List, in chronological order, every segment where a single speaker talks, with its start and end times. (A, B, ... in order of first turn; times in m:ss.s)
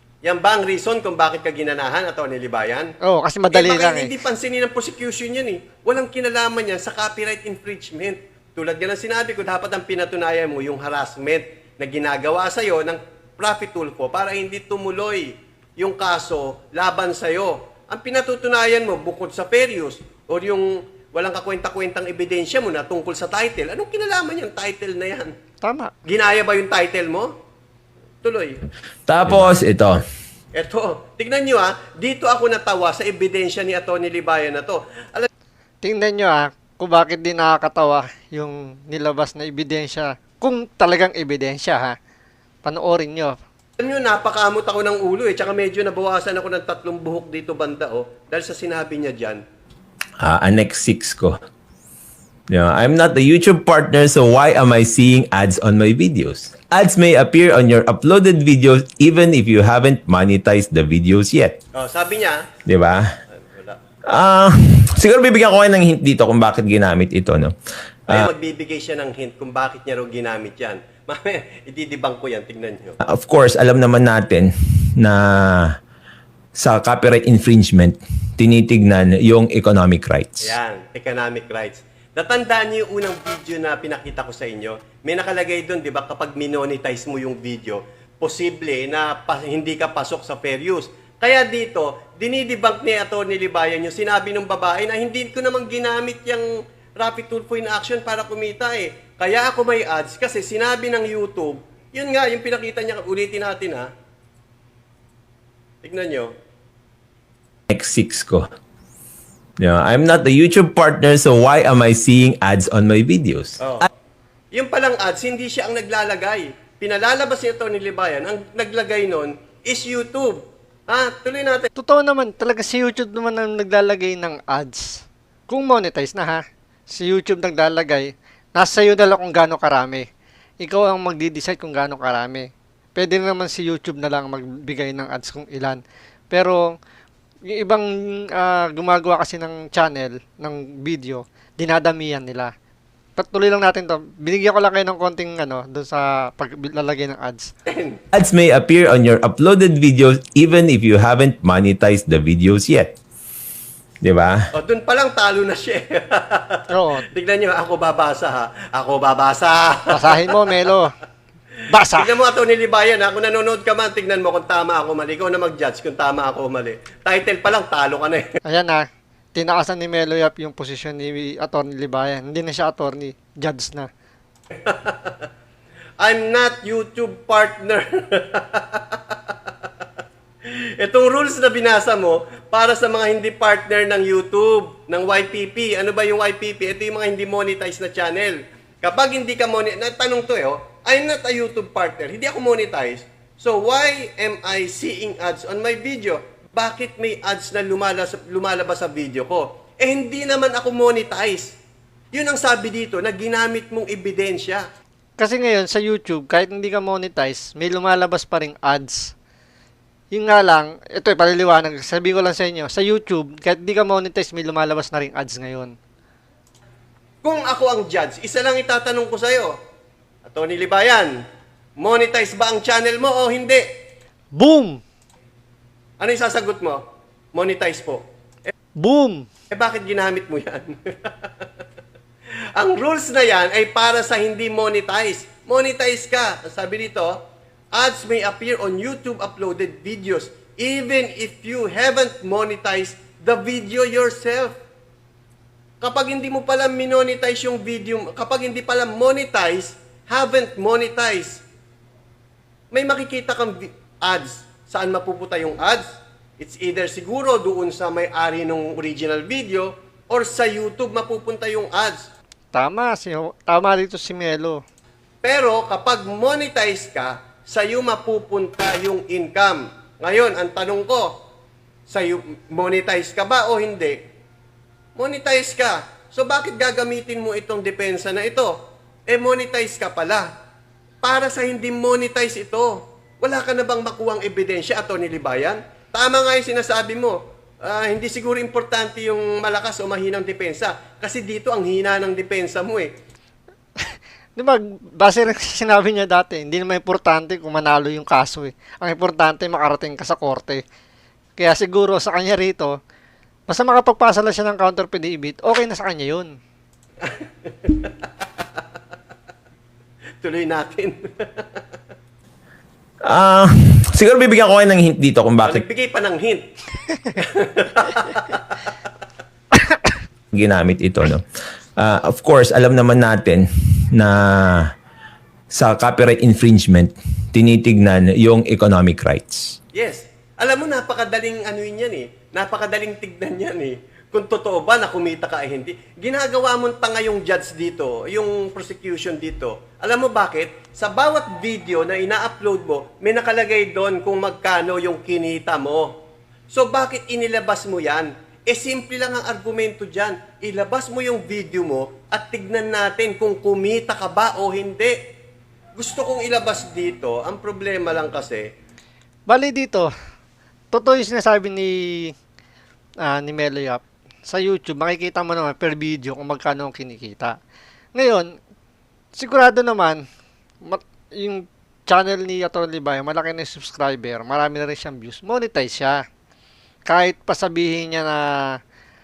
0:00.2-0:02.9 A
0:03.0-0:04.1 B
0:03.5-0:25.3 A
0:25.6-0:25.9 B
0:26.1-0:27.3 A
0:28.2-0:28.6 A
0:29.1-0:30.0 C
0:30.6-0:35.3 A
0:35.8-0:42.0 B
0:42.6-0:43.4 B
0:43.8-0:49.4 A
0:50.2-0:51.4 C
0:52.5-1:01.6 C
1:01.8-1:02.4 A
1:02.7-1:03.1 C
1:03.4-1:03.8 A
1:04.1-1:07.6 C
1:08.1-1:13.0 A
1:13.0-1:15.8 C
1:16.6-1:20.5 C
1:20.4-1:36.5 A
1:37.0-1:43.9 A
1:45.8-1:46.3 A
1:47.7-1:48.5 C
1:49.6-1:53.6 C
1:53.6-1:53.9 A
1:54.5-2:01.7 A
2:01.8-2:10.1 B
2:10.6-2:16.8 B
2:17.5-2:22.5 B
2:23.2-2:27.5 B
2:27.7-2:28.0 A
2:28.1-2:33.0 C
2:34.0-2:34.5 C
2:34.5-2:40.6 A
2:36.7-2:37.0 B
2:39.9-2:40.9 B
2:41.7-2:42.1 B
2:41.9-2:48.2 A
2:48.4-2:53.9 B
2:54.7-2:55.2 A
2:56.0-2:59.4 A
3:00.5-3:21.6 A
3:22.1-3:24.6 A
3:25.2-3:29.1 B
3:30.1-3:35.8 B
3:37.2-3:39.6 A
3:40.3-3:41.1 A
3:41.8-3:43.6 A
3:44.4-3:44.8 B
3:46.0-3:46.8 A
3:47.4-3:48.5 A
3:48.8-3:49.3 B
3:49.5-3:51.5 A
3:52.6-3:57.2 A
3:57.7-4:04.6 A
4:05.8-4:11.4 A
4:12.7-4:15.8 A
4:16.4-4:22.1 A
4:22.5-4:24.6 B
4:25.2-4:31.1 A
4:31.9-4:34.0 A
4:35.0-4:38.5 A
4:39.1-4:40.3 A
4:41.0-4:52.9 A
4:53.8-5:00.6 B
5:01.4-5:02.8 B
5:03.5-5:06.4 B
5:07.0-5:07.9 A
5:10.2-5:11.6 A
5:13.1-5:15.6 C
5:15.4-5:16.4 A
5:17.1-5:18.4 A
5:20.3-5:21.3 C
5:21.8-5:24.7 C
5:25.5-5:29.6 C
5:29.8-5:45.9 A
5:46.5-5:55.0 A
5:55.8-5:58.5 A
5:59.3-5:59.9 B
6:00.7-6:02.1 B
6:03.0-6:07.4 B
6:08.0-6:08.3 B
6:09.1-6:10.0 B
6:10.6-6:16.0 B
6:16.9-6:18.6 B